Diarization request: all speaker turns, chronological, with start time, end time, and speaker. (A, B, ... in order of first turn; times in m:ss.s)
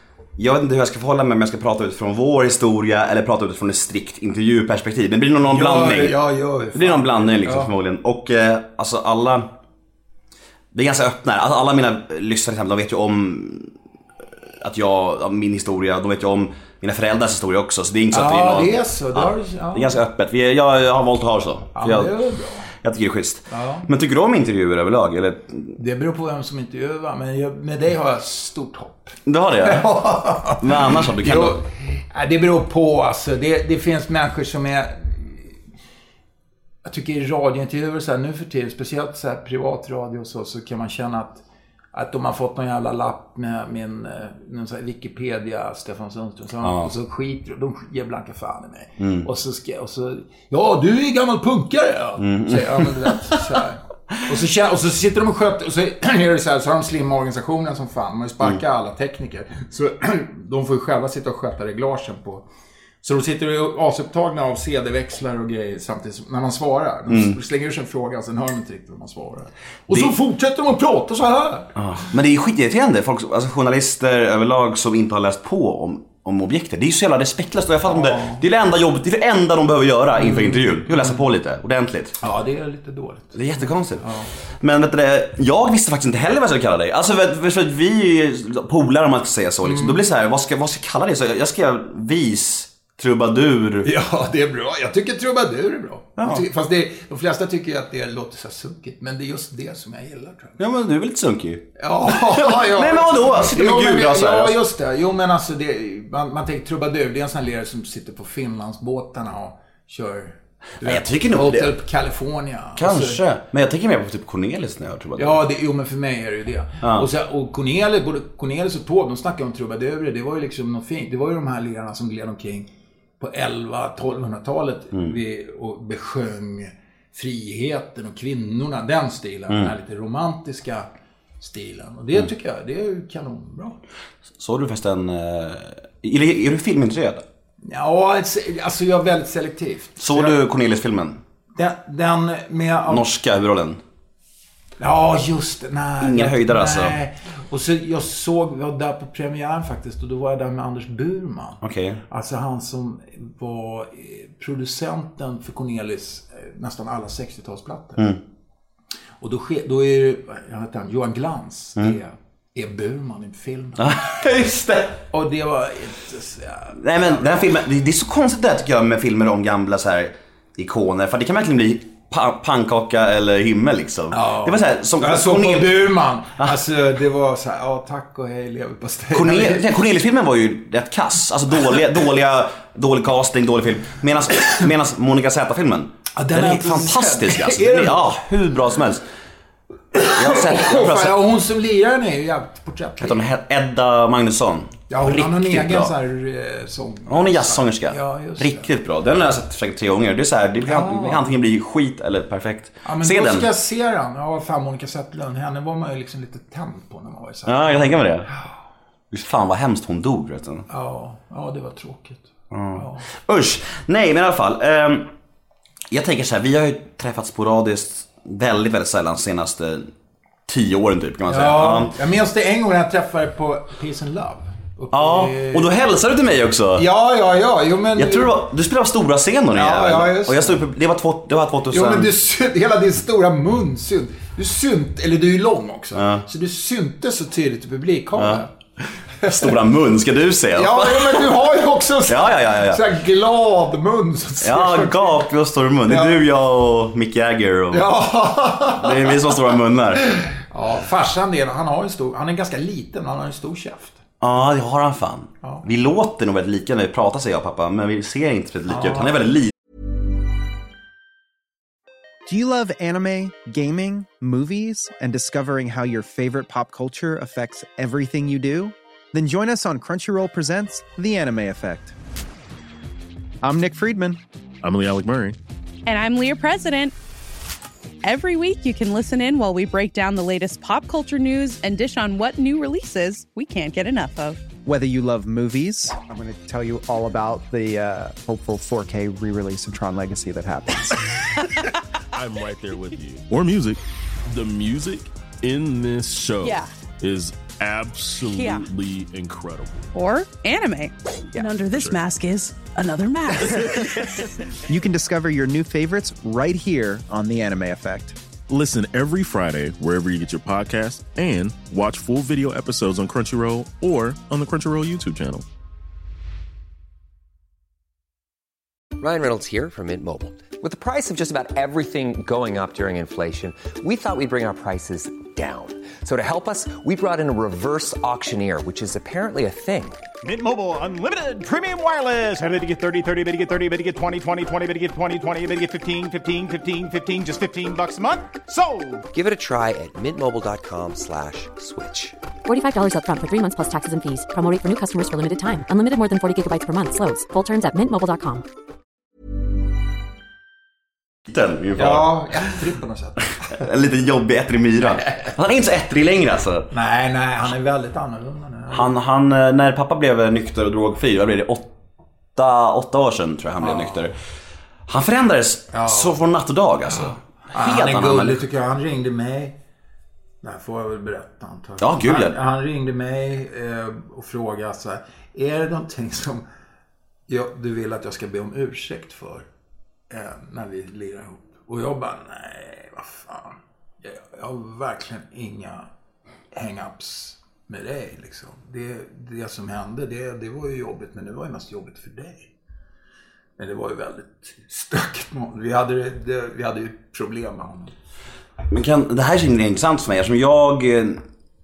0:00.4-0:06.2 A
0:05.4-0:07.7 B
0:06.7-0:09.5 A
0:10.7-0:13.7 A
0:14.6-0:22.2 A
0:18.1-0:20.0 B
0:21.8-0:22.7 B
0:22.8-0:25.7 A
0:23.5-0:23.9 B
0:25.8-0:35.6 B
0:29.3-0:30.0 A
0:30.5-0:31.6 A
0:36.8-1:02.4 B
0:46.6-0:46.9 A
0:49.0-0:49.3 A
0:52.2-0:53.2 A
1:03.0-1:11.7 B
1:07.1-1:07.4 A
1:11.8-1:22.2 A
1:17.9-1:18.4 B
1:20.2-1:21.2 B
1:22.2-1:24.3 B
1:23.3-1:24.1 A
1:24.6-1:33.9 A
1:29.6-1:30.0 B
1:33.8-1:40.6 B
1:36.2-1:36.4 A
1:40.6-1:44.6 A
1:41.8-1:53.2 B
1:50.8-1:51.7 A
1:52.8-1:55.4 A
1:55.2-2:10.9 B
1:56.8-1:57.1 A
2:11.4-2:13.8 B
2:14.4-2:17.2 A
2:17.6-2:20.4 B
2:20.0-2:21.2 A
2:21.6-2:23.0 B
2:22.9-2:23.8 A
2:24.8-2:38.0 B
2:26.0-2:27.0 A
2:31.6-2:32.0 A
2:39.2-2:43.9 B
2:43.8-2:45.0 A
2:45.1-2:47.5 B
2:46.8-2:55.8 A
2:54.1-2:59.7 B
2:59.1-3:09.0 A
3:06.1-3:08.1 B
3:09.9-3:13.2 B
3:10.0-3:11.2 A
3:13.0-3:15.9 A
3:14.9-3:18.7 B
3:17.1-3:23.5 A
3:20.6-3:21.3 B
3:22.8-3:28.4 B
3:27.5-3:28.3 A
3:29.1-3:30.7 A
3:30.7-3:33.0 B
3:32.5-3:35.1 A
3:35.9-3:39.9 A
3:40.5-3:41.9 A
3:41.3-3:45.7 B
3:44.9-3:46.8 A
3:46.8-3:48.4 B
3:48.0-3:52.1 A
3:49.5-3:50.6 B
3:51.7-3:58.5 B
3:56.0-3:56.2 A
3:58.2-3:58.4 A
3:59.2-3:59.6 B
3:59.3-4:01.4 A
4:00.5-4:05.2 B
4:02.1-4:02.8 A
4:04.4-4:07.9 A
4:05.9-4:06.2 B
4:07.7-4:09.3 B
4:08.8-4:10.1 A
4:10.0-4:14.0 B
4:14.2-4:19.5 A
4:18.7-4:19.1 B
4:22.3-4:32.0 C
4:33.4-4:34.2 C
4:34.6-4:35.4 D
4:35.9-4:36.9 E
4:38.0-4:44.4 E
4:44.7-4:51.1 C
4:52.1-4:59.9 D
4:56.4-4:56.7 E
4:58.3-4:58.7 E
5:00.0-5:04.0 E
5:01.7-5:02.0 D
5:04.7-5:08.2 C
5:08.5-5:15.4 D
5:19.0-5:30.0 F
5:30.2-5:39.1 G
5:39.1-5:42.2 F
5:42.4-5:48.4 H
5:51.3-5:52.2 A
5:51.8-5:53.6 B
5:53.5-5:56.7 A
5:56.7-5:58.9 B
5:58.7-6:01.7 A
6:02.4-6:04.2 A
6:03.6-6:04.0 B
6:04.9-6:08.4 A
6:05.7-6:06.2 B
6:07.5-6:09.6 B
6:10.4-6:16.4 B
6:11.8-6:12.4 A
6:17.3-6:19.5 B
6:20.1-6:25.9 B
6:26.5-6:32.5 B
6:33.6-6:37.9 B
6:38.7-6:41.2 A